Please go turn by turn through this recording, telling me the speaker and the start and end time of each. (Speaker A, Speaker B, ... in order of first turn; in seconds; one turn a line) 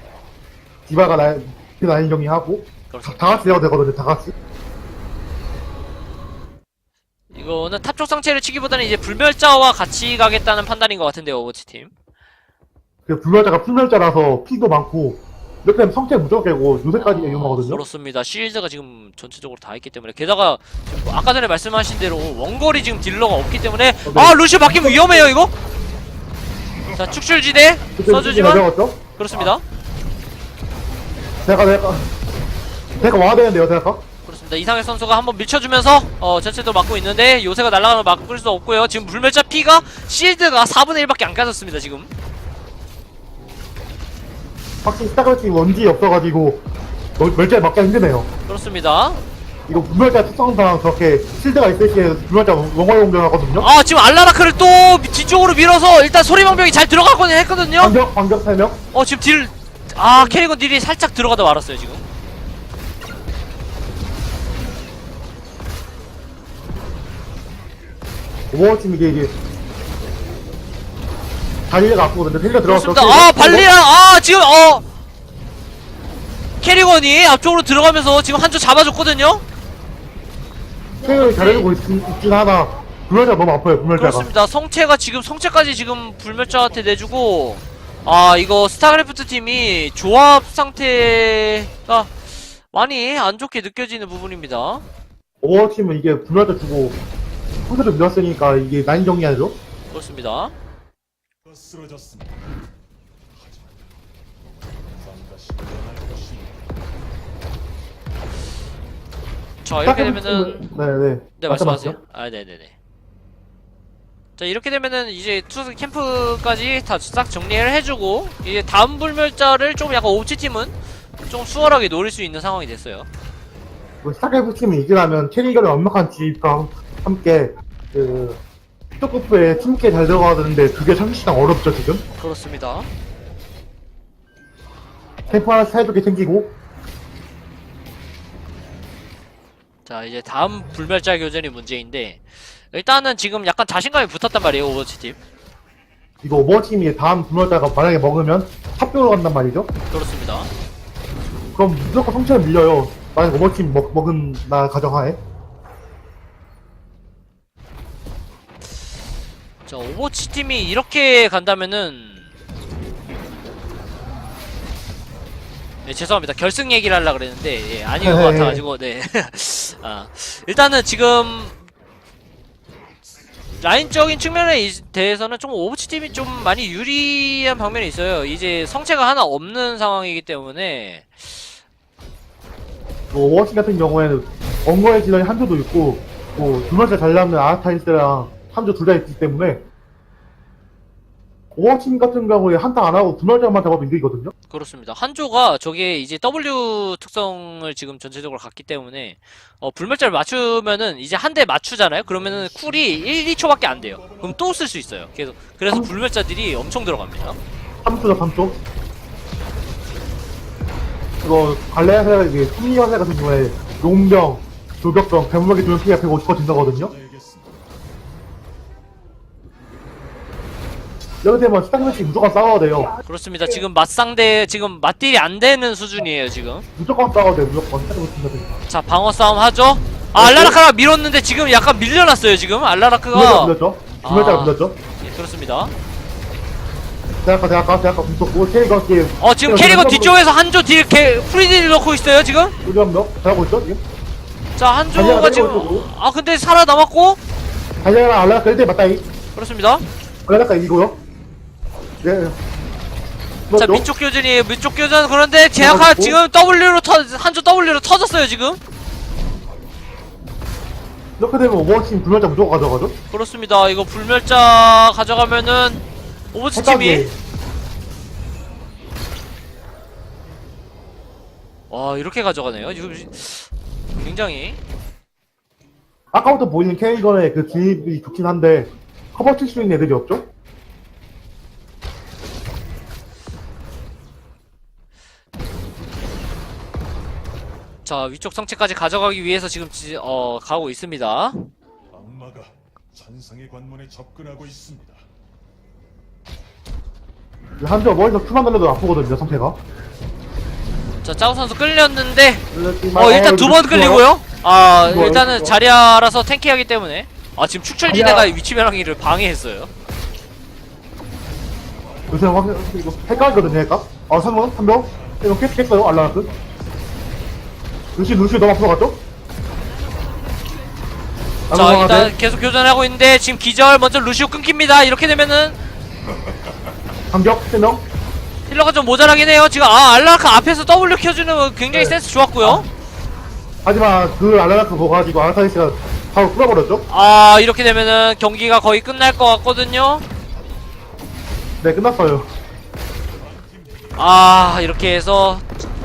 Speaker A: 0.9-4.3
Speaker B: 2.9-3.5
Speaker B: 7.3-11.9
Speaker A: 13.1-17.8
Speaker B: 17.0-25.5
Speaker A: 24.0-25.3
Speaker B: 26.9-28.6
Speaker A: 27.9-29.0
Speaker B: 29.2-29.6
Speaker A: 31.4-32.1
Speaker A: 33.0-34.0
Speaker B: 34.2-42.1
Speaker A: 44.8-46.6
Speaker A: 47.2-48.3
Speaker B: 48.5-49.2
Speaker A: 49.7-53.7
Speaker B: 53.6-58.0
Speaker A: 57.8-58.8
Speaker B: 58.9-62.0
Speaker A: 68.5-69.3
Speaker A: 71.7-73.7
Speaker B: 72.6-74.8
Speaker B: 76.6-79.4
Speaker A: 81.0-84.3
Speaker B: 81.0-81.7
Speaker B: 84.0-94.8
Speaker A: 95.4-97.0
Speaker A: 97.7-99.6
Speaker B: 99.9-100.5
Speaker C: 101.4-102.4
Speaker C: 103.3-106.8
Speaker B: 109.6-110.7
Speaker A: 109.8-112.0
Speaker B: 111.4-112.7
Speaker B: 114.4-120.7
Speaker B: 121.3-123.1
Speaker A: 124.0-128.4
Speaker A: 129.0-132.0
Speaker B: 132.2-132.9
Speaker A: 135.3-136.5
Speaker B: 139.8-145.2
Speaker A: 146.2-149.7
Speaker B: 149.9-150.5
Speaker A: 151.5-155.2
Speaker B: 159.7-162.3
Speaker B: 165.8-171.6
Speaker A: 168.0-168.6
Speaker B: 173.6-181.4
Speaker A: 183.1-189.6
Speaker A: 191.5-194.3
Speaker B: 194.5-207.4
Speaker C: 202.0-204.6
Speaker A: 207.8-208.5
Speaker C: 208.1-208.6
Speaker A: 211.2-216.9
Speaker C: 215.9-217.7
Speaker A: 221.2-222.9
Speaker B: 223.1-226.7
Speaker A: 226.8-228.5
Speaker B: 228.7-235.7
Speaker A: 230.2-230.6
Speaker A: 233.1-234.8
Speaker A: 237.2-240.2
Speaker B: 239.2-242.6
Speaker A: 242.6-243.8
Speaker B: 244.6-247.2
Speaker A: 244.9-245.9
Speaker A: 247.8-249.1
Speaker B: 249.3-249.9
Speaker A: 250.2-251.0
Speaker A: 252.0-252.4
Speaker A: 253.5-253.8
Speaker B: 253.5-258.6
Speaker A: 255.6-256.2
Speaker A: 261.2-262.9
Speaker B: 263.1-267.1
Speaker A: 266.5-267.1
Speaker B: 271.7-274.6
Speaker A: 276.1-280.3
Speaker B: 287.8-291.5
Speaker C: 291.9-295.1
Speaker A: 297.6-299.6
Speaker B: 301.0-302.4
Speaker A: 302.5-304.1
Speaker B: 302.9-309.7
Speaker A: 304.8-305.6
Speaker A: 307.9-308.3
Speaker C: 311.7-317.1
Speaker A: 312.1-316.3
Speaker A: 317.9-319.0
Speaker A: 321.5-322.1
Speaker B: 321.5-325.6
Speaker A: 327.1-327.8
Speaker B: 328.5-332.7
Speaker A: 331.7-332.6
Speaker A: 333.6-336.9
Speaker B: 336.9-340.1
Speaker A: 341.6-342.3
Speaker C: 343.1-344.6
Speaker B: 343.9-345.4